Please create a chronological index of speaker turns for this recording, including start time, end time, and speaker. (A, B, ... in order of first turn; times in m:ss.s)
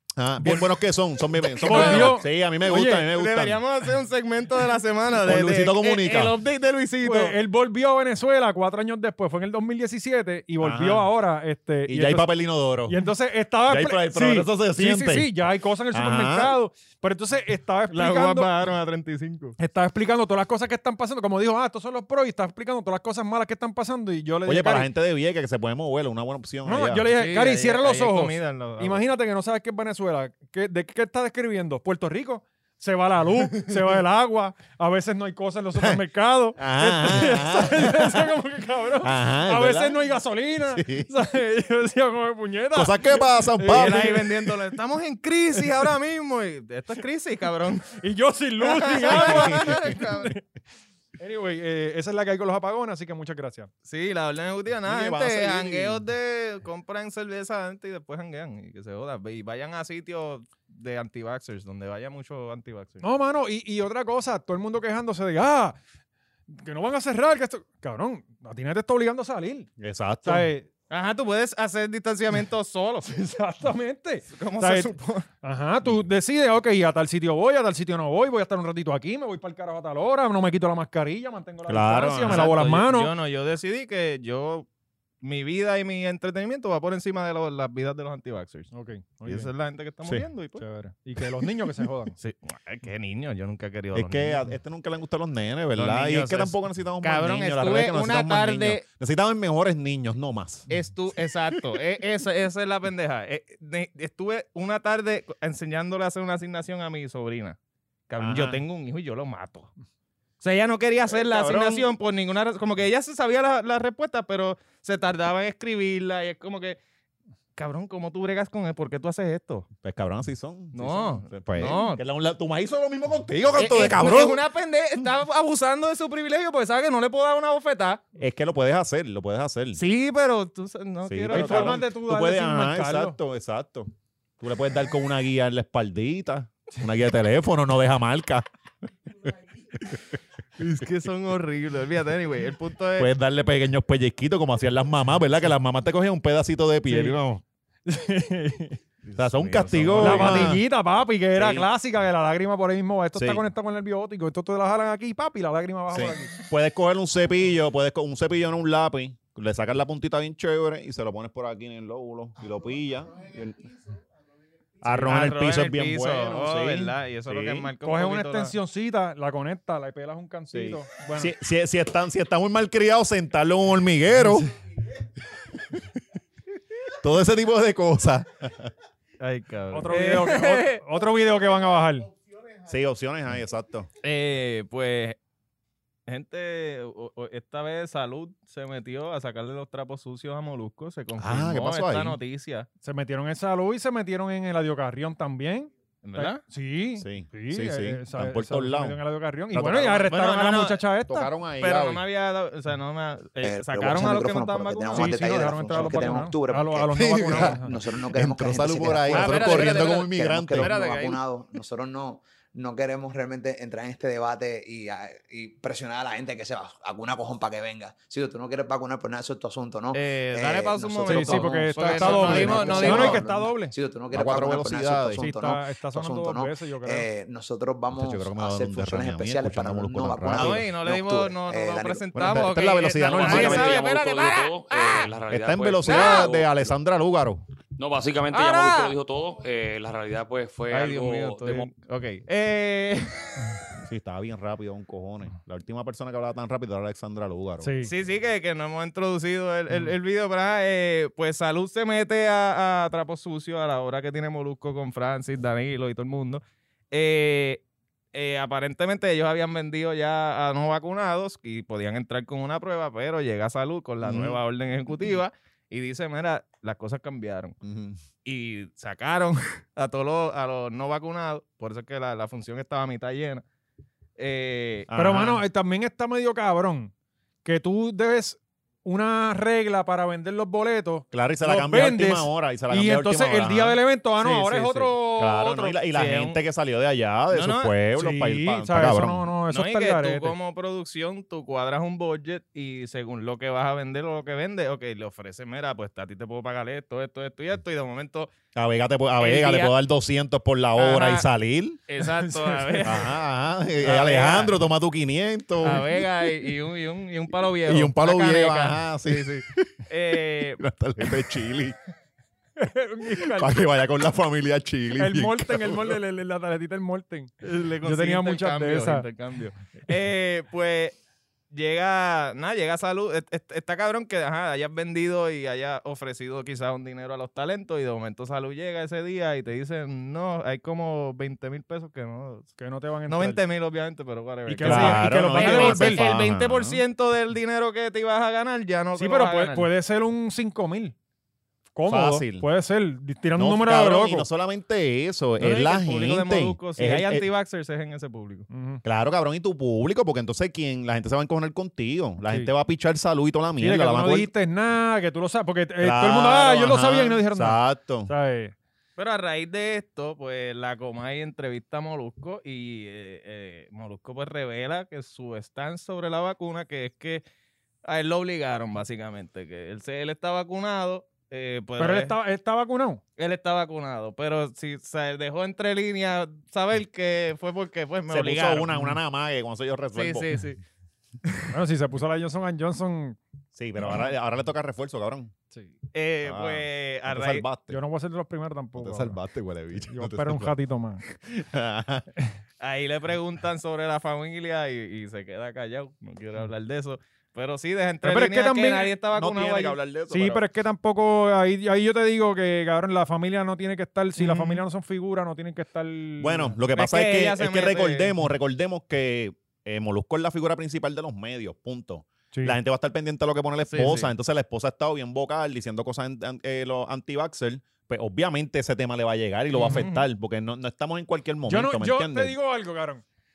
0:00.2-0:03.6 A
0:01.6-0:02.2 B
0:01.6-0:03.1 C
0:03.1-0:07.4 B
0:05.2-0:06.3 A
0:07.0-0:12.3 C
0:10.6-0:11.1 A
0:11.8-0:13.0 A
0:12.9-0:18.5 C
0:13.7-0:15.4 A
0:15.9-0:16.6 A
0:17.9-0:19.6 B
0:19.6-0:24.9 C
0:24.4-0:27.1 A
0:26.6-0:44.3 C
0:27.1-0:29.0 B
0:36.6-0:38.3 A
0:39.0-0:40.0 A
0:40.7-0:41.1 A
0:42.7-0:44.3 A
0:43.7-0:48.0 B
0:48.0-0:50.4 C
0:48.6-0:50.3 B
0:51.2-0:53.7 C
0:53.9-1:03.0 B
0:54.8-0:56.0 A
1:03.0-1:05.8 C
1:06.5-1:09.7 C
1:09.8-1:10.5 A
1:10.2-1:10.7 C
1:10.9-1:13.1 B
1:13.1-1:23.1 C
1:14.3-1:15.3 B
1:21.7-1:22.5 A
1:22.2-1:24.6 B
1:25.2-1:28.7 B
1:28.7-1:29.5 C
1:29.2-1:30.6 B
1:30.6-1:32.2 C
1:32.2-1:34.4 B
1:33.9-1:40.7 A
1:35.8-1:38.8 B
1:40.7-1:47.6 B
1:48.1-1:49.7 B
1:48.2-1:48.6 A
1:50.4-1:56.8 B
1:51.1-1:51.9 A
1:57.6-1:59.7 B
1:59.8-2:04.4 A
2:00.7-2:02.0 B
2:03.6-2:08.0 B
2:08.2-2:09.8 A
2:09.8-2:11.8 B
2:11.1-2:18.4 A
2:11.3-2:13.2 C
2:20.6-2:23.1 B
2:23.0-2:27.4 A
2:26.9-2:27.1 C
2:27.8-2:28.8 C
2:29.0-2:30.6 B
2:29.2-2:30.6 A
2:30.0-2:36.3 C
2:31.4-2:31.7 A
2:33.1-2:33.4 A
2:35.9-2:43.6 A
2:44.8-2:47.7 A
2:44.9-2:48.6 B
2:47.8-2:51.3 C
2:50.5-2:54.5 A
2:57.0-2:58.7 A
2:59.2-3:00.8 B
2:59.7-3:02.1 C
3:02.6-3:03.9 A
3:04.0-3:05.2 B
3:06.1-3:12.7 B
3:11.2-3:12.2 A
3:12.8-3:21.3 C
3:16.0-3:16.4 B
3:17.0-3:19.0 A
3:19.5-3:20.2 A
3:20.1-3:20.8 B
3:21.1-3:22.0 A
3:21.6-3:25.2 B
3:23.4-3:52.0 D
3:24.9-3:27.7 C
3:25.7-3:26.0 A
3:26.9-3:30.7 A
3:29.1-3:31.2 B
3:39.9-3:43.2 B
3:41.1-3:43.7 C
3:42.0-3:43.2 A
3:44.1-3:45.3 A
3:45.2-3:47.1 C
3:47.9-3:50.7 A
3:50.3-3:55.1 B
3:52.1-3:53.8 A
3:53.0-3:56.5 E
3:55.3-3:57.4 A
3:55.8-3:56.4 B
3:57.8-4:01.7 E
3:58.3-3:58.9 B
4:00.7-4:03.6 B
4:03.8-4:07.7 A
4:07.6-4:07.9 C
4:07.8-4:17.6 B
4:18.1-4:27.5 B
4:24.0-4:24.4 A
4:27.6-4:28.0 A
4:28.2-4:33.4 B
4:34.2-4:34.9 B
4:34.9-4:35.4 A
4:34.9-4:36.9 C
4:37.4-4:45.8 C
4:41.1-4:43.8 A
4:44.2-4:44.9 B
4:45.0-4:49.3 A
4:45.9-4:46.4 B
4:47.3-4:47.7 B
4:47.9-4:50.4 C
4:49.5-4:58.3 B
4:58.5-5:01.8 A
4:59.2-4:59.7 B
5:00.8-5:01.3 B
5:01.9-5:03.1 B
5:02.0-5:03.0 C
5:02.8-5:05.9 A
5:03.8-5:04.6 B
5:05.6-5:10.6 B
5:07.6-5:09.8 A
5:10.3-5:11.8 A
5:12.6-5:13.7 C
5:13.2-5:16.0 A
5:15.0-5:19.0 C
5:17.4-5:21.0 B
5:21.5-5:39.7 B
5:32.6-5:33.4 C
5:34.5-5:36.0 C
5:34.6-5:36.8 A
5:39.0-5:40.9 C
5:41.7-5:44.3 C
5:41.9-5:42.5 A
5:43.4-5:47.3 A
5:45.4-5:48.5 B
5:48.5-5:48.8 C
5:48.8-5:54.3 A
5:52.2-5:52.5 C
5:53.6-5:58.5 C
5:55.8-5:58.1 A
5:59.0-6:07.2 B
6:07.8-6:12.1 B
6:11.8-6:13.0 C
6:13.2-6:18.7 B
6:18.1-6:20.3 A
6:19.9-6:20.6 B
6:21.5-6:23.2 C
6:23.5-6:25.3 A
6:23.8-6:24.1 C
6:25.9-6:27.4 B
6:26.2-6:27.8 A
6:27.7-6:29.2 C
6:28.8-6:30.5 A
6:29.9-6:31.0 C
6:31.0-6:32.1 A
6:32.6-6:39.8 B
6:38.0-6:38.9 C
6:39.1-6:40.4 A
6:40.1-6:46.6 C
6:44.2-6:44.6 B
6:46.2-7:02.3 A
6:46.7-6:48.1 B
6:52.3-6:52.6 C
6:53.7-6:54.1 B
6:59.5-7:00.0 B
7:01.5-7:03.0 C